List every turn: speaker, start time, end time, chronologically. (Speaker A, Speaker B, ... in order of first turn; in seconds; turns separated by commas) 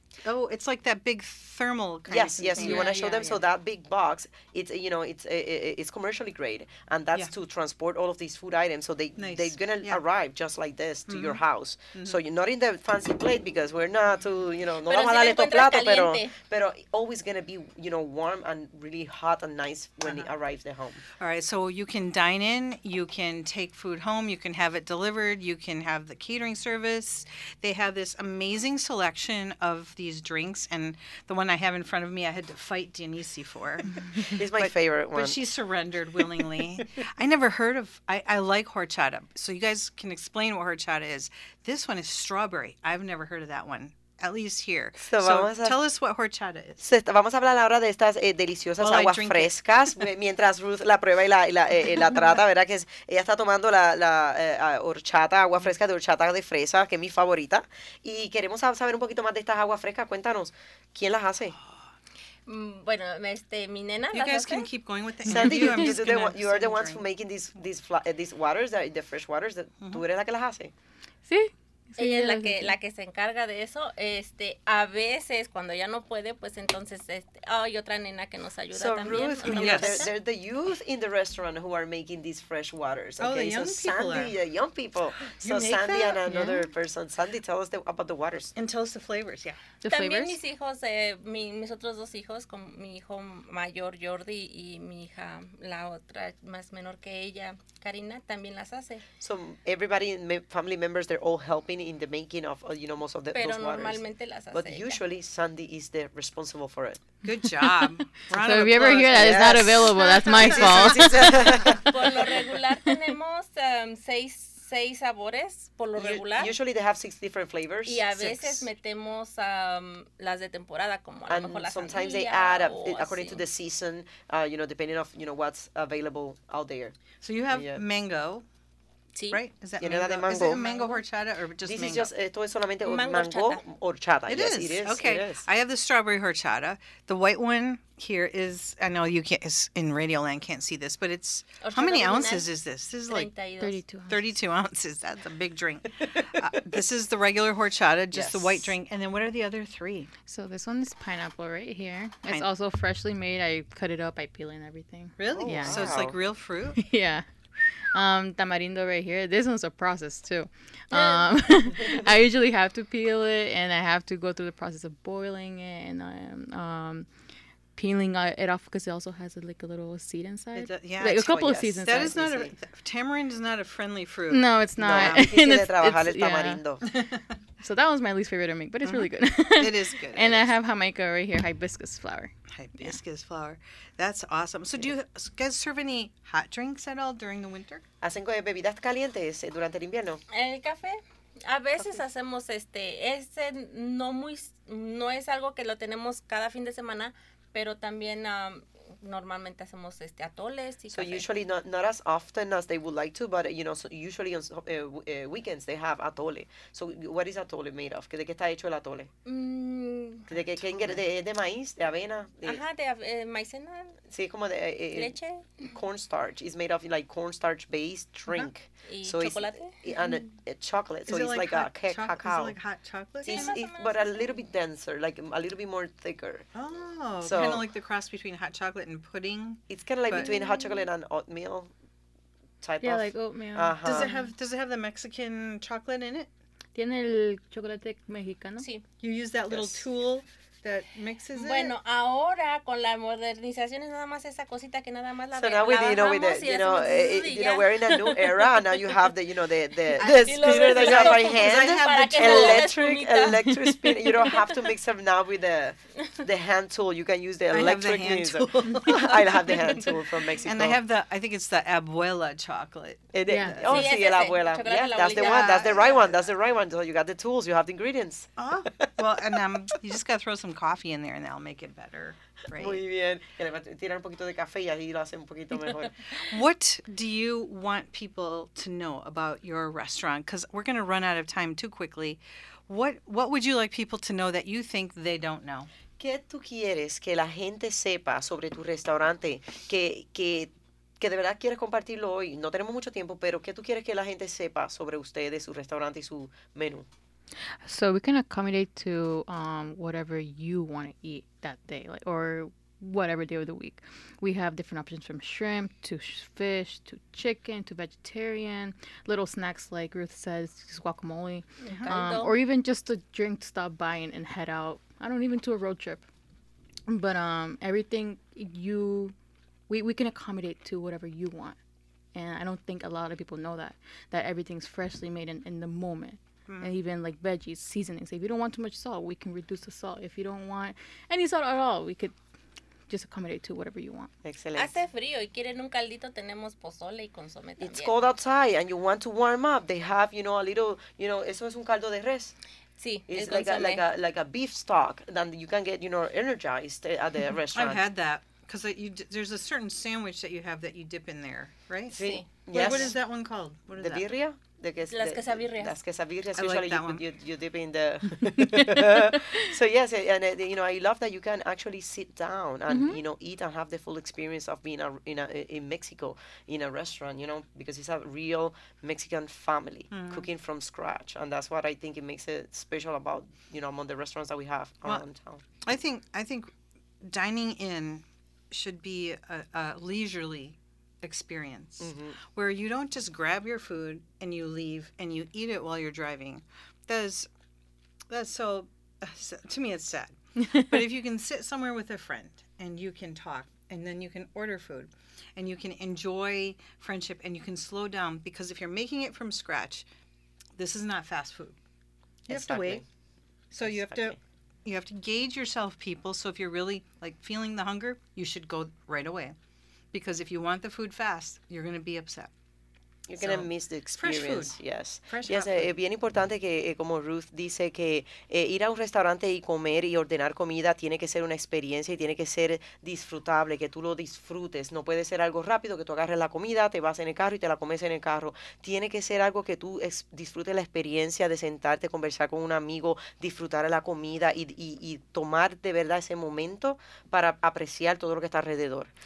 Speaker A: 0.2-2.9, Speaker B: 2.1-21.0, Speaker C: 2.6-3.3, Speaker D: 2.7-3.2, Speaker A: 9.2-10.0, Speaker A: 11.1-11.4, Speaker A: 11.9-12.2, Speaker C: 14.9-16.3, Speaker A: 21.2-46.8, Speaker B: 34.1-35.4, Speaker B: 45.0-45.8, Speaker B: 46.8-61.6, Speaker A: 48.8-49.6, Speaker C: 62.5-64.7, Speaker A: 64.1-67.0, Speaker B: 65.3-70.7, Speaker D: 65.3-65.8, Speaker D: 71.3-72.8, Speaker C: 72.0-80.1, Speaker B: 78.7-88.5, Speaker A: 79.1-80.1, Speaker A: 83.2-84.4, Speaker A: 85.4-86.2, Speaker D: 86.3-86.6, Speaker A: 88.6-89.6, Speaker D: 89.8-90.4, Speaker C: 89.9-99.0, Speaker B: 99.2-107.0, Speaker C: 103.3-105.0, Speaker A: 107.2-109.6, Speaker D: 107.8-111.6, Speaker B: 109.1-112.4, Speaker C: 111.0-116.5, Speaker B: 116.0-118.7, Speaker C: 117.9-123.4, Speaker B: 121.3-127.0, Speaker A: 127.2-128.4, Speaker B: 127.5-127.8, Speaker C: 129.2-129.4, Speaker A: 129.3-132.1, Speaker B: 129.8-130.6, Speaker C: 130.5-131.0, Speaker B: 131.6-135.5, Speaker C: 132.8-133.6, Speaker A: 134.3-143.3, Speaker C: 141.6-142.5, Speaker C: 143.1-143.8, Speaker D: 143.6-144.3, Speaker A: 144.1-150.1, Speaker B: 146.0-146.5, Speaker B: 148.1-148.7, Speaker D: 150.3-156.0, Speaker A: 155.2-156.8, Speaker B: 155.3-156.2, Speaker D: 156.8-167.1, Speaker D: 167.8-172.3, Speaker A: 170.6-175.2, Speaker B: 171.2-172.5, Speaker D: 174.3-176.6, Speaker B: 174.8-176.9, Speaker A: 176.8-177.3, Speaker D: 177.6-183.0, Speaker A: 178.8-180.5, Speaker A: 182.5-187.8, Speaker B: 188.0-190.2, Speaker C: 190.3-201.2, Speaker B: 200.9-209.1, Speaker C: 209.3-210.3, Speaker B: 210.3-212.6, Speaker A: 210.6-211.0, Speaker C: 212.4-214.0, Speaker B: 214.1-222.6, Speaker C: 214.9-215.7, Speaker C: 218.9-220.2, Speaker A: 221.1-223.5, Speaker C: 223.2-224.3, Speaker B: 223.3-226.5, Speaker A: 226.6-230.3, Speaker B: 227.2-227.7, Speaker B: 229.7-231.7, Speaker C: 230.1-230.6, Speaker B: 232.6-234.1, Speaker D: 232.8-234.3, Speaker A: 233.8-236.3, Speaker D: 236.8-238.7, Speaker C: 238.6-238.8, Speaker A: 239.0-241.7, Speaker B: 239.5-239.8, Speaker C: 241.3-249.0, Speaker B: 245.3-260.8, Speaker C: 249.9-254.7, Speaker A: 250.0-252.7, Speaker A: 257.5-259.9, Speaker A: 260.4-263.8, Speaker B: 263.1-269.4, Speaker D: 263.3-263.8, Speaker C: 263.7-266.0, Speaker A: 265.1-266.2, Speaker A: 268.4-272.8, Speaker B: 272.5-276.2, Speaker A: 276.2-285.7, Speaker B: 286.0-296.9, Speaker D: 297.6-316.0, Speaker C: 311.6-312.4, Speaker A: 311.7-311.9, Speaker D: 316.9-319.1, Speaker D: 319.7-321.6, Speaker D: 322.1-332.2, Speaker A: 326.5-326.7, Speaker D: 332.9-334.1, Speaker B: 334.2-334.8, Speaker C: 334.6-338.0, Speaker B: 337.6-342.3, Speaker C: 342.8-343.8, Speaker B: 343.1-347.8, Speaker A: 347.5-354.1, Speaker B: 351.9-353.0, Speaker C: 352.0-352.9, Speaker B: 353.8-375.4, Speaker C: 354.9-355.8, Speaker A: 356.4-357.0, Speaker D: 362.7-363.0, Speaker A: 369.9-370.3, Speaker A: 375.6-387.3, Speaker B: 381.8-382.2, Speaker A: 388.1-399.9, Speaker D: 390.4-390.8, Speaker A: 400.6-401.6, Speaker A: 402.3-402.8, Speaker B: 402.3-402.9, Speaker A: 403.5-409.4, Speaker B: 403.6-404.2, Speaker A: 409.9-412.3, Speaker B: 413.1-438.9, Speaker A: 413.2-415.7